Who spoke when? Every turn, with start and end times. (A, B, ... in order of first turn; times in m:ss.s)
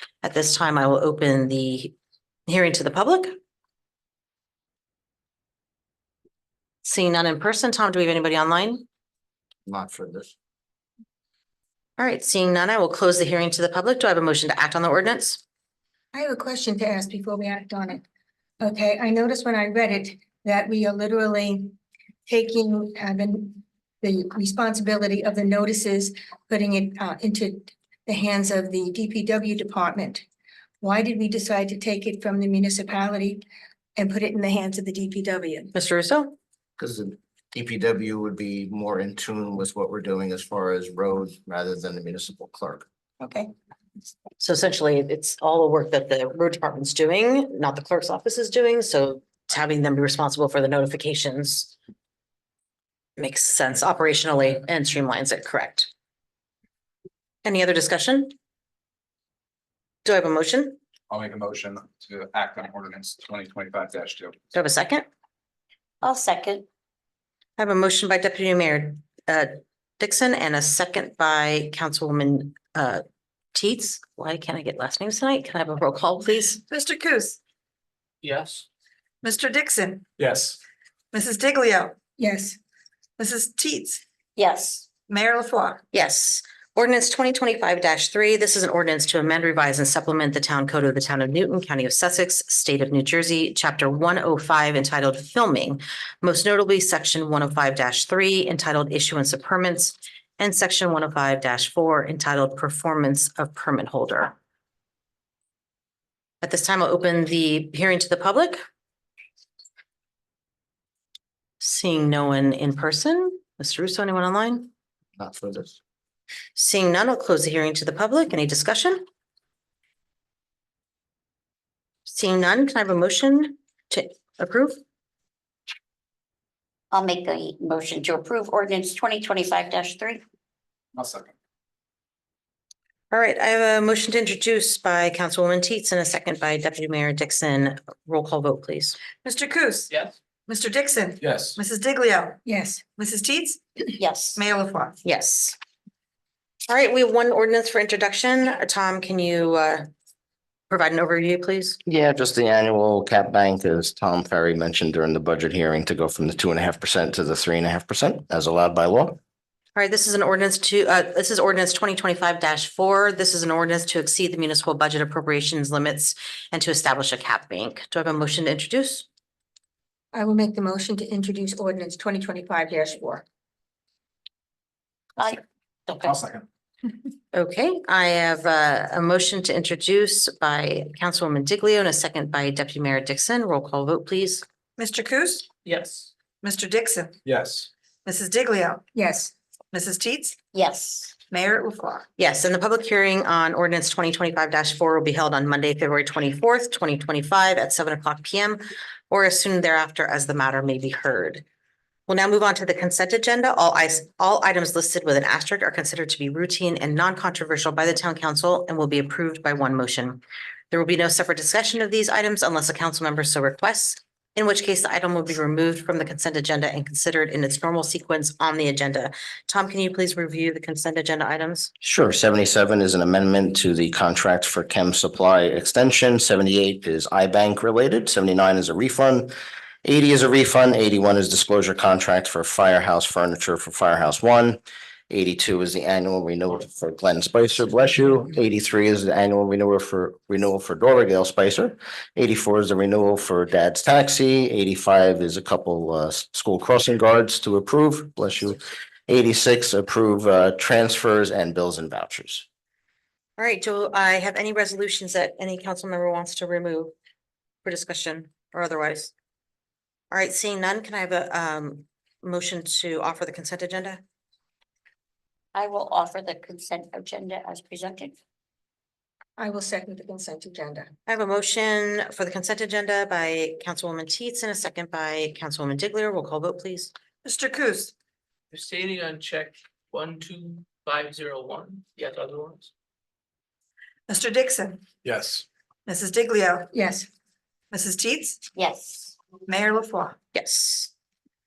0:00.2-0:01.9 A
0:02.5-0:03.4 A
0:06.8-0:08.8 A
0:09.6-0:10.3 B
0:12.0-0:15.4 A
0:16.1-0:18.0 C
0:18.6-0:21.7 C
0:22.3-0:30.2 C
0:30.8-0:33.4 C
0:34.0-0:35.7 C
0:35.7-0:36.3 A
0:36.8-0:42.8 B
0:43.2-0:43.5 C
0:44.4-0:51.7 A
0:53.2-0:55.9 A
0:57.4-0:58.3 A
1:00.0-1:00.8 A
1:01.1-1:04.4 D
1:04.5-1:05.0 A
1:06.0-1:06.6 E
1:07.6-1:13.0 A
1:13.5-1:16.6 A
1:16.7-1:17.4 F
1:18.2-1:18.6 G
1:19.2-1:20.0 F
1:20.2-1:20.6 D
1:21.1-1:21.9 F
1:22.2-1:22.6 C
1:23.2-1:24.0 F
1:24.4-1:24.9 E
1:25.1-1:25.8 F
1:25.9-1:44.3 A
1:46.4-1:48.6 A
1:51.6-1:54.7 A
1:55.2-1:55.8 B
1:56.6-1:59.0 A
2:02.0-2:04.8 A
2:06.9-2:10.2 E
2:10.9-2:11.3 D
2:13.1-2:19.0 A
2:19.2-2:19.9 F
2:20.5-2:22.4 F
2:21.2-2:21.6 D
2:22.4-2:22.8 C
2:23.0-2:23.6 F
2:24.0-2:24.4 E
2:24.4-2:25.0 F
2:25.0-2:25.6 A
2:26.7-2:29.9 A
2:30.7-2:31.8 A
2:31.8-2:39.2 B
2:39.7-2:49.0 A
2:50.1-2:53.2 C
2:55.2-2:56.2 E
2:55.9-2:56.4 D
2:57.3-3:04.4 A
3:04.8-3:05.5 F
3:05.6-3:06.1 G
3:06.4-3:07.2 F
3:07.2-3:07.7 D
3:08.0-3:08.8 F
3:08.9-3:09.3 C
3:09.7-3:10.4 F
3:10.5-3:11.2 E
3:11.3-3:12.0 F
3:12.2-3:21.4 A
3:22.1-3:41.7 A
3:41.8-4:12.4 B
4:13.4-4:16.9 A
4:17.6-4:19.1 A
4:20.1-4:24.0 A
4:25.5-4:28.2 E
4:29.4-4:30.9 C
4:31.1-4:36.9 A
4:37.2-4:37.9 F
4:38.5-4:42.7 G
4:44.1-4:44.8 F
4:45.0-4:45.4 D
4:45.9-4:46.7 F
4:46.7-4:47.1 C
4:47.7-4:48.4 F
4:48.6-4:49.2 E
4:49.5-4:50.2 F
4:50.3-4:50.9 A